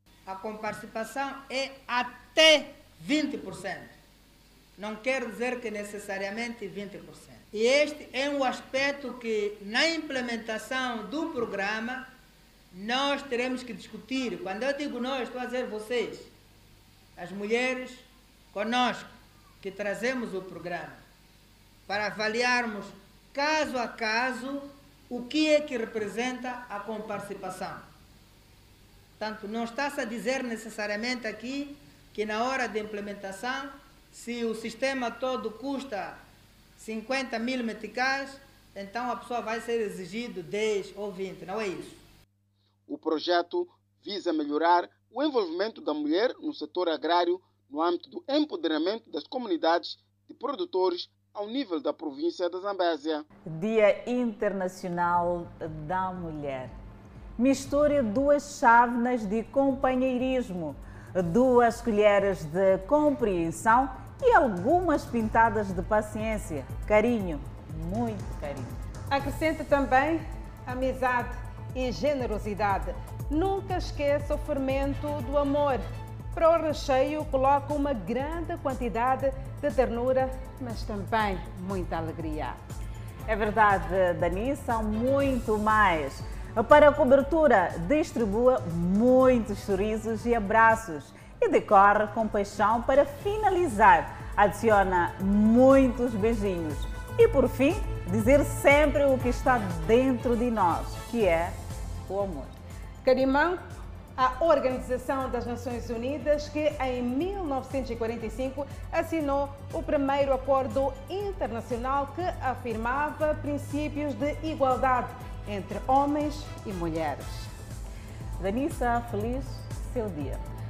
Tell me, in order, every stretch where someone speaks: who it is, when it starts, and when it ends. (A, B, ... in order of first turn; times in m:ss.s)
0:00.3-0:04.0 A
0:04.8-0:12.1 A
0:12.7-0:16.3 A
0:17.2-0:21.0 A
0:21.9-0:27.9 A
0:29.2-0:36.2 A
0:36.8-0:42.0 A
0:42.9-0:53.2 B
0:53.4-0:56.7 C
0:57.4-1:08.8 C
1:09.1-1:22.6 D
1:23.3-1:42.5 C
1:43.0-1:43.6 D
1:44.2-1:57.5 D
1:58.4-2:00.4 C